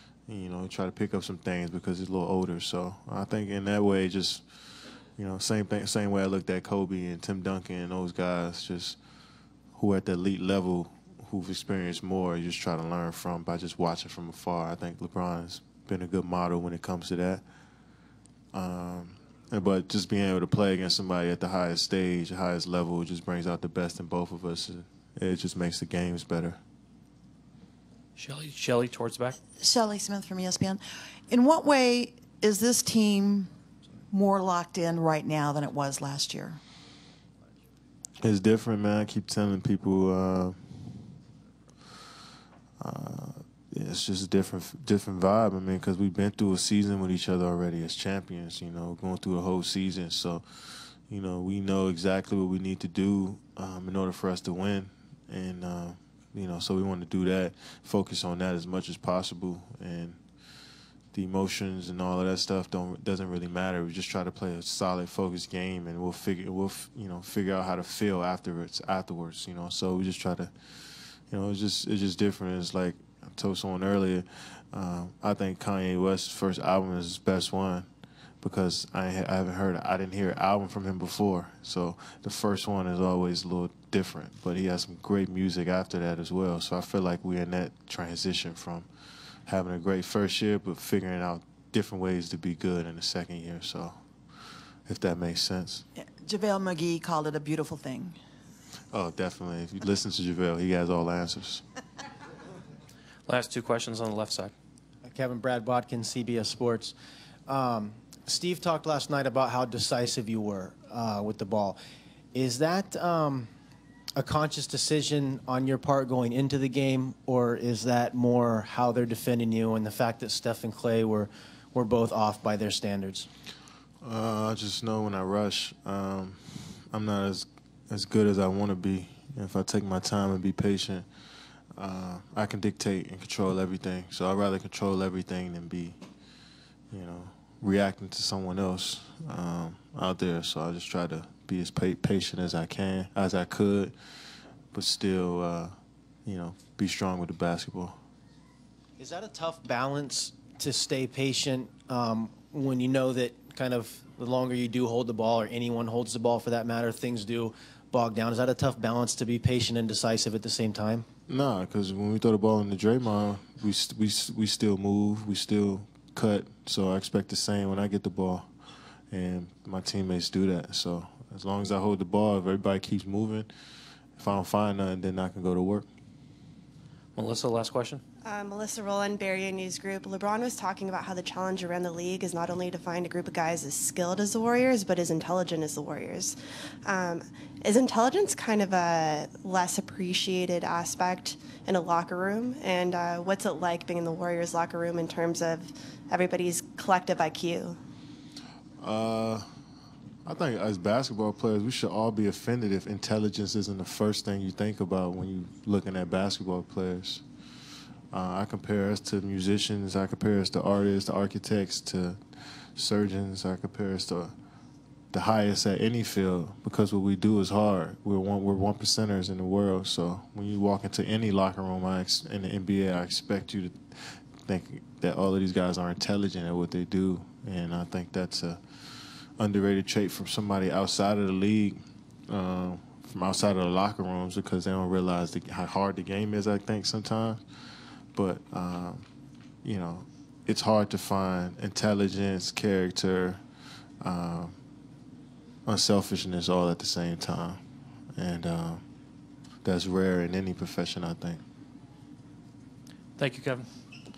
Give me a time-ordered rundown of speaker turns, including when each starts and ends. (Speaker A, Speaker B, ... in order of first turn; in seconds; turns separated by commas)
Speaker A: 0.3-9.0, Speaker A: 9.7-17.4, Speaker A: 18.5-26.6, Speaker B: 28.2-29.4, Speaker C: 29.6-30.8, Speaker C: 31.3-33.4, Speaker C: 34.1-36.5, Speaker A: 38.2-41.0, Speaker A: 42.8-60.2, Speaker A: 61.1-77.9, Speaker A: 78.4-88.9, Speaker A: 89.5-94.0, Speaker A: 94.8-95.8, Speaker C: 96.2-98.1, Speaker A: 98.9-101.6, Speaker B: 103.2-104.5, Speaker D: 105.0-106.9, Speaker D: 107.5-111.8, Speaker D: 112.3-113.5, Speaker D: 114.2-123.3, Speaker A: 124.0-131.1, Speaker A: 131.8-136.0, Speaker A: 136.9-143.9, Speaker A: 144.7-145.7, Speaker A: 146.2-148.0, Speaker D: 149.0-161.1, Speaker A: 161.3-168.5, Speaker A: 169.1-173.5, Speaker A: 174.2-175.9, Speaker B: 177.1-178.0, Speaker E: 178.2-197.8, Speaker A: 198.8-199.4, Speaker A: 200.2-207.2, Speaker A: 208.1-212.2, Speaker A: 212.8-214.3, Speaker A: 215.1-237.4, Speaker A: 238.1-239.1, Speaker A: 239.6-243.4, Speaker A: 244.0-244.6, Speaker A: 245.7-247.6, Speaker A: 248.2-248.8, Speaker A: 249.6-251.4, Speaker B: 253.2-253.7